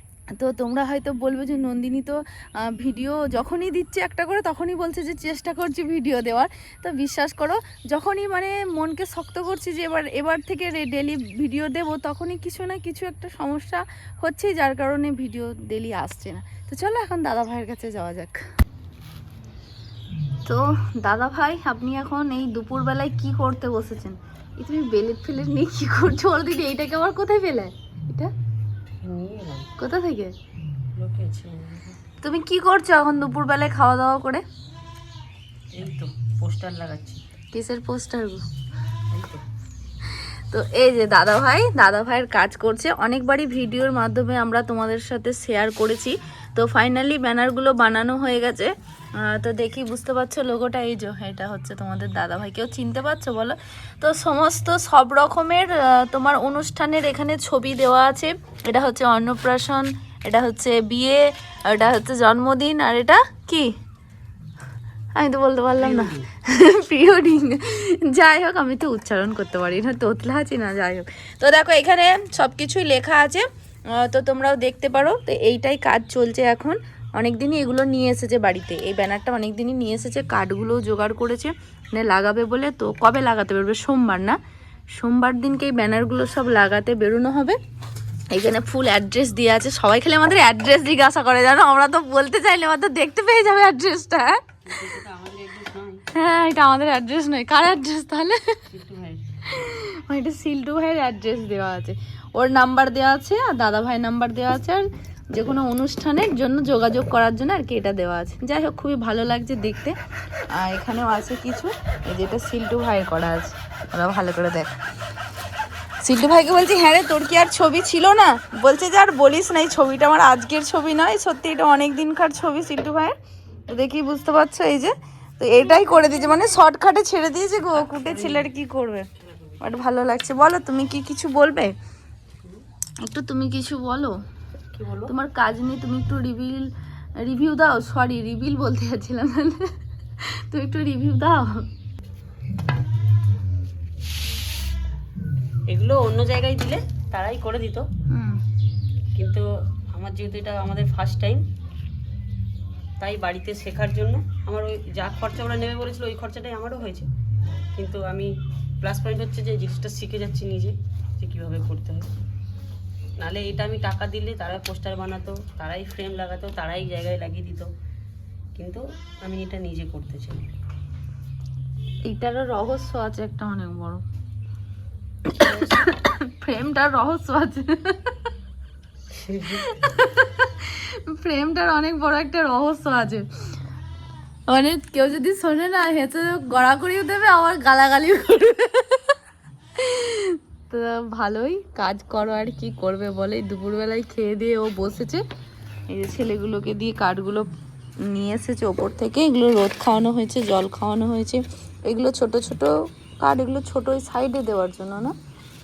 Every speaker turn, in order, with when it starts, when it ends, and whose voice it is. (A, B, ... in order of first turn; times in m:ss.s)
0:00.4-0:18.4 A
0:20.4-0:28.3 A
0:29.0-0:29.7 B
0:29.8-0:30.3 A
0:31.0-0:32.0 B
0:32.2-0:34.4 A
0:35.7-0:37.2 B
0:37.5-0:38.4 A
0:39.1-0:39.4 B
0:40.2-1:03.8 A
1:05.2-1:24.4 A
1:05.8-1:06.3 B
1:25.0-1:27.6 A
1:28.3-1:34.4 A
1:34.7-1:36.0 B
1:36.1-1:38.6 A
1:38.7-1:39.2 B
1:39.5-1:50.0 A
1:50.6-1:54.7 A
1:56.0-2:03.1 A
2:03.7-2:09.1 A
2:07.7-2:08.5 B
2:09.6-2:11.8 A
2:13.0-2:14.2 A
2:14.7-2:15.1 B
2:15.1-2:16.7 A
2:17.2-2:21.7 A
2:25.7-2:27.9 B
2:28.1-2:28.4 A
2:29.2-2:31.4 B
2:33.0-2:37.1 B
2:37.7-2:42.1 B
2:43.2-2:47.7 B
2:48.6-2:50.5 B
2:52.1-2:54.0 A
2:55.4-2:58.3 A
2:59.1-2:59.7 B
2:59.6-3:03.3 A
3:04.5-3:09.2 A
3:09.8-3:15.2 A
3:15.9-3:17.5 A
3:18.1-3:25.2 A